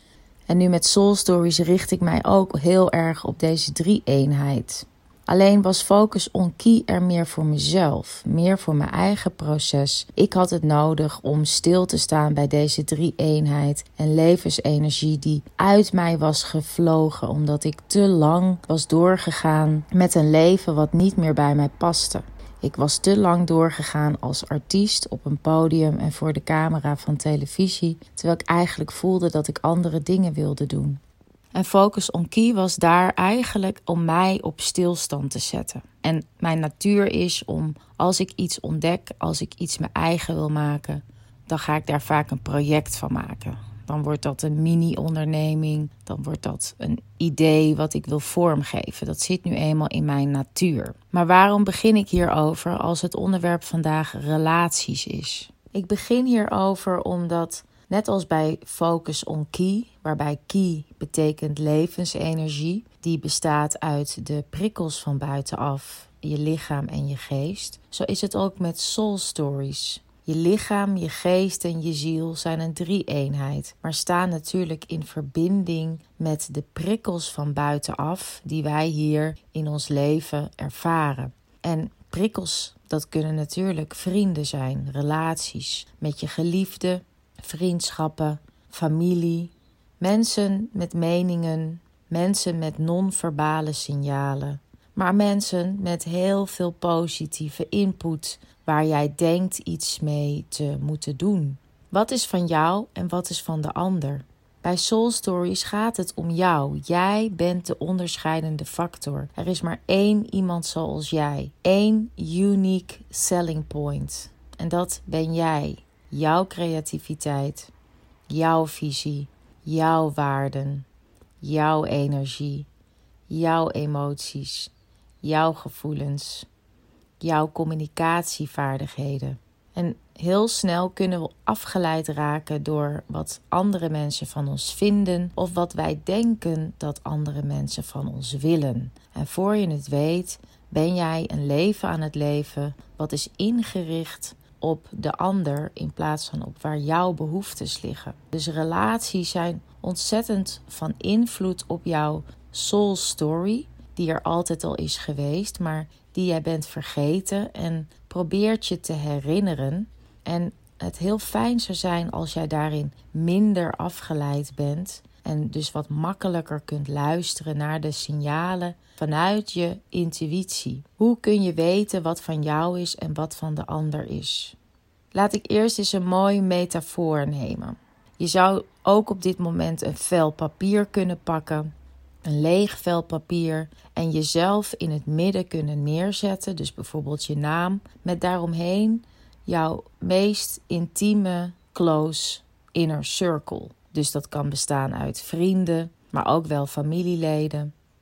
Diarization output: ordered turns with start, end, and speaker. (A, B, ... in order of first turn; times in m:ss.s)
0:00.5-0:31.0 A
0:31.6-1:57.7 A
1:58.3-2:00.9 A
2:01.4-2:02.7 A
2:03.3-2:06.5 A
2:07.2-2:54.6 A
2:55.1-3:01.7 A
3:02.2-3:17.7 A